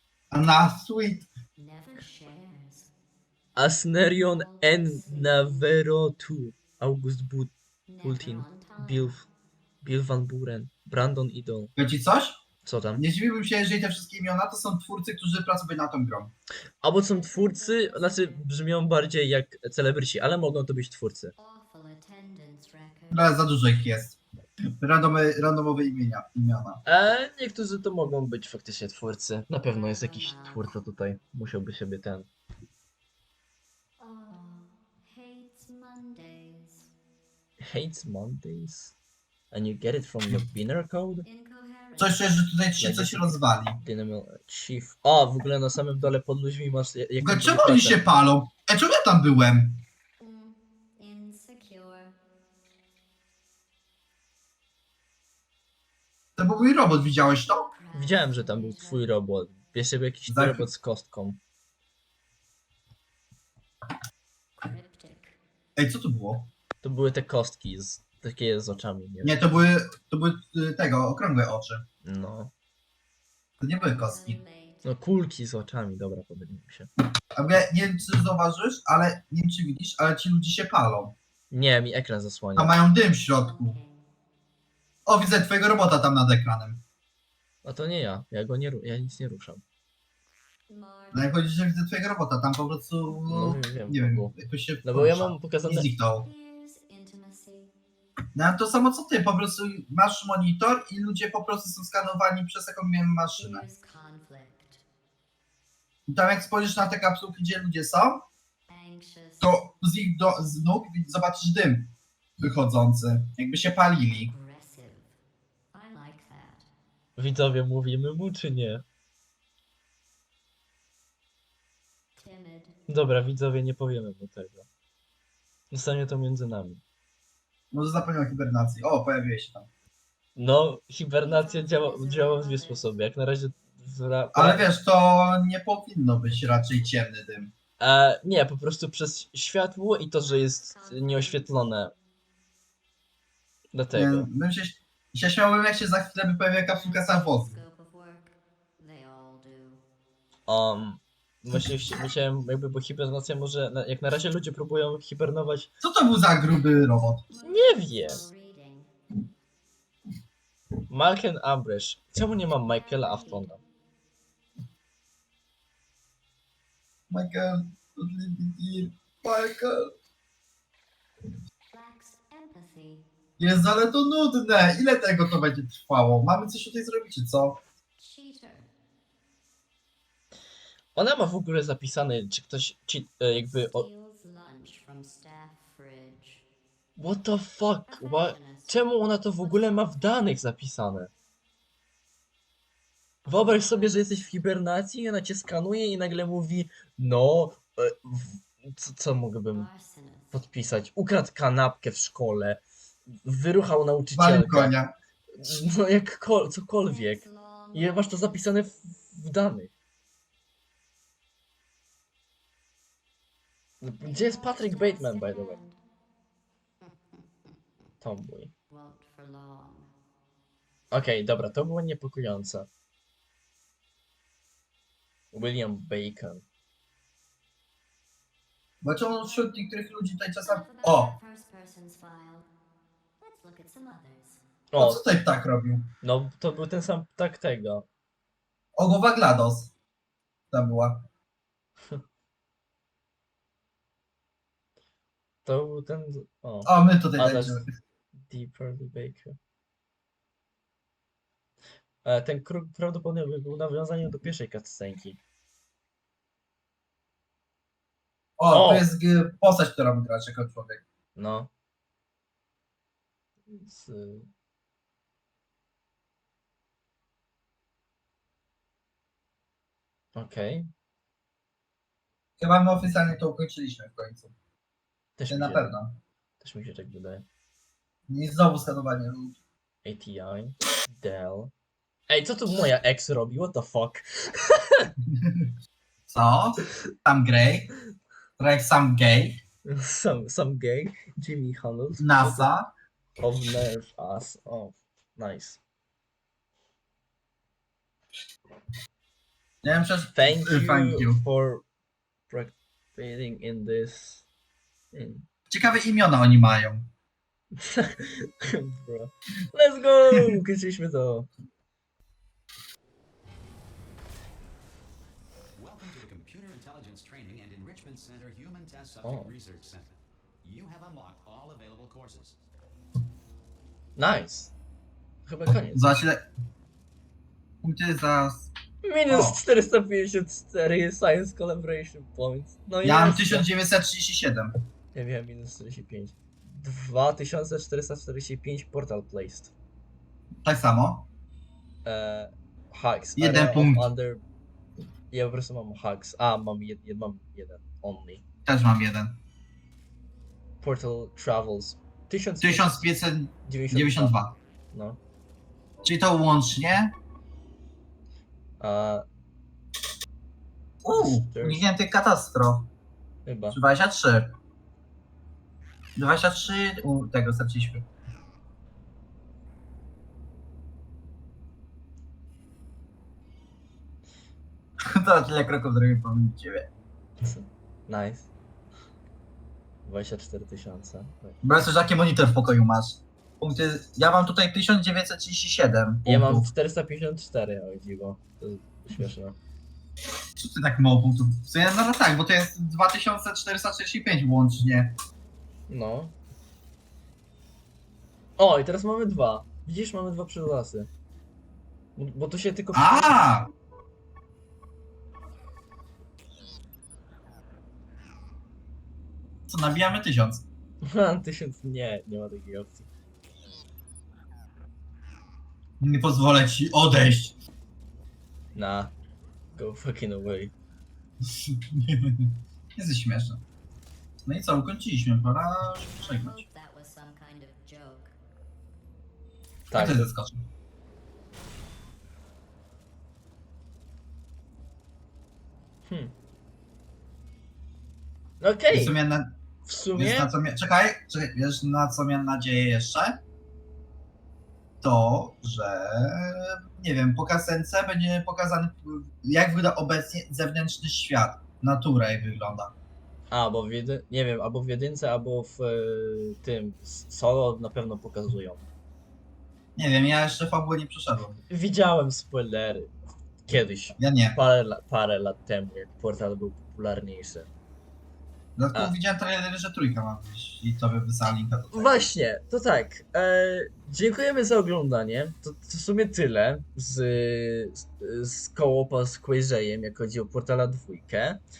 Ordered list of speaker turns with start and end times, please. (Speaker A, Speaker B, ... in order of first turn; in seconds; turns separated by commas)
Speaker A: 0.3-1.3, Speaker B: 1.6-2.9, Speaker C: 3.6-9.2, Speaker B: 4.2-5.7, Speaker B: 7.9-9.3, Speaker C: 9.8-11.7, Speaker A: 11.8-12.4, Speaker C: 12.6-13.1, Speaker A: 13.0-16.3, Speaker C: 16.8-21.3, Speaker B: 17.1-18.5, Speaker B: 21.4-23.4, Speaker A: 23.1-24.2, Speaker A: 24.8-26.8, Speaker C: 26.9-32.3, Speaker B: 29.7-30.7, Speaker B: 34.0-36.9, Speaker C: 37.6-39.0, Speaker C: 39.5-41.3, Speaker B: 41.2-42.4, Speaker A: 42.0-43.8, Speaker C: 42.8-48.0, Speaker A: 47.2-49.8, Speaker B: 50.2-52.2, Speaker A: 56.4-57.7, Speaker B: 57.5-59.1, Speaker C: 57.9-61.4, Speaker A: 60.3-60.7, Speaker B: 64.6-65.4, Speaker A: 65.8-66.5, Speaker C: 66.8-69.4, Speaker A: 69.2-71.8, Speaker C: 72.0-72.5, Speaker A: 73.6-74.4, Speaker B: 73.8-74.9, Speaker C: 74.8-76.9, Speaker A: 77.3-81.2, Speaker C: 81.5-82.8, Speaker A: 82.6-83.8, Speaker B: 83.2-84.1, Speaker A: 85.1-86.8, Speaker C: 87.6-89.6, Speaker B: 90.7-91.3, Speaker A: 91.1-96.3, Speaker C: 93.3-95.9, Speaker B: 96.1-97.7, Speaker A: 98.3-103.7, Speaker B: 103.4-104.8, Speaker A: 106.1-108.3, Speaker B: 108.7-109.6, Speaker A: 109.4-114.3, Speaker B: 114.2-115.2, Speaker B: 115.7-116.7, Speaker C: 117.2-118.8, Speaker B: 122.2-122.8, Speaker C: 122.9-124.7, Speaker C: 125.7-126.8, Speaker A: 127.7-129.7, Speaker C: 130.4-134.7, Speaker B: 131.2-133.0, Speaker A: 134.3-137.5, Speaker C: 137.8-141.9, Speaker B: 140.2-141.8, Speaker C: 143.7-144.3, Speaker A: 143.9-147.6, Speaker B: 146.6-149.8, Speaker C: 150.5-155.7, Speaker A: 155.8-157.2, Speaker B: 157.3-158.9, Speaker C: 157.4-158.2, Speaker C: 160.9-163.6, Speaker B: 162.6-163.7, Speaker A: 167.1-169.9, Speaker B: 171.7-173.1, Speaker A: 173.4-177.6, Speaker B: 178.0-178.7, Speaker C: 180.9-183.8, Speaker B: 183.4-186.4, Speaker C: 187.0-191.1, Speaker B: 187.9-190.2, Speaker B: 193.2-194.4, Speaker C: 193.3-199.7, Speaker B: 199.5-200.3, Speaker C: 200.3-202.6, Speaker C: 203.2-204.8, Speaker A: 204.2-204.9, Speaker C: 205.4-209.7, Speaker B: 206.8-208.4, Speaker C: 213.8-215.6, Speaker B: 214.0-215.8, Speaker B: 216.8-217.6, Speaker C: 218.0-218.5, Speaker B: 218.7-219.9, Speaker C: 220.9-222.7, Speaker C: 225.3-226.4, Speaker A: 228.8-231.2, Speaker B: 230.4-232.5, Speaker B: 233.2-234.4, Speaker C: 234.7-235.0, Speaker A: 234.8-235.9, Speaker C: 236.0-237.9, Speaker A: 238.8-239.7, Speaker A: 240.5-241.1, Speaker C: 245.4-247.6, Speaker A: 246.7-247.6, Speaker C: 248.1-249.4, Speaker C: 252.0-255.2, Speaker A: 258.4-260.8, Speaker C: 258.5-258.9, Speaker C: 261.2-261.5, Speaker C: 263.5-264.3, Speaker C: 270.1-270.7, Speaker A: 272.4-274.3, Speaker C: 275.2-275.7, Speaker A: 275.3-276.0, Speaker C: 276.4-277.3, Speaker A: 278.1-279.4, Speaker C: 279.8-281.5, Speaker C: 282.1-284.9, Speaker A: 285.1-285.5, Speaker A: 286.1-287.7, Speaker A: 288.4-289.4, Speaker C: 289.7-292.5, Speaker A: 292.0-292.7, Speaker C: 293.2-295.6, Speaker A: 299.6-301.2, Speaker C: 300.1-301.6, Speaker C: 302.3-304.3, Speaker C: 304.9-305.3, Speaker A: 305.5-306.9, Speaker C: 307.6-311.3, Speaker D: 315.6-322.4, Speaker C: 319.0-319.3, Speaker C: 324.0-324.5, Speaker C: 325.3-326.0, Speaker A: 325.7-326.3, Speaker A: 327.6-328.5, Speaker C: 328.8-333.5, Speaker A: 329.1-329.4, Speaker A: 332.8-334.5, Speaker C: 334.9-339.5, Speaker A: 340.4-341.1, Speaker C: 341.9-344.2, Speaker A: 343.2-343.9, Speaker C: 345.1-348.2, Speaker A: 348.5-349.2, Speaker C: 350.6-352.9, Speaker A: 352.4-354.4, Speaker C: 353.4-354.2, Speaker C: 354.7-355.0, Speaker A: 355.8-356.9, Speaker C: 358.6-359.1, Speaker A: 360.8-362.7, Speaker C: 360.9-361.6, Speaker C: 363.3-363.6, Speaker A: 363.5-364.4, Speaker A: 366.0-367.9, Speaker A: 374.9-376.7, Speaker C: 377.2-378.3, Speaker C: 379.9-381.4, Speaker A: 381.4-386.5, Speaker C: 386.1-389.4, Speaker A: 390.4-395.0, Speaker C: 395.7-396.1, Speaker C: 398.4-400.9, Speaker C: 402.0-403.2, Speaker A: 402.7-403.5, Speaker A: 409.5-410.5, Speaker C: 410.8-412.9, Speaker A: 415.8-417.4, Speaker C: 418.6-418.9, Speaker C: 419.5-420.5, Speaker A: 421.3-423.4, Speaker A: 424.2-426.4, Speaker B: 425.8-428.2, Speaker C: 429.7-430.1, Speaker A: 429.7-430.4, Speaker C: 435.9-436.1, Speaker C: 438.4-439.0, Speaker A: 438.7-439.4, Speaker C: 439.7-440.3, Speaker A: 439.9-443.2, Speaker A: 444.8-452.8, Speaker C: 453.3-458.7, Speaker A: 459.8-461.4, Speaker C: 461.5-462.9, Speaker C: 463.5-467.5, Speaker A: 464.0-464.4, Speaker A: 468.6-472.1, Speaker C: 471.7-481.4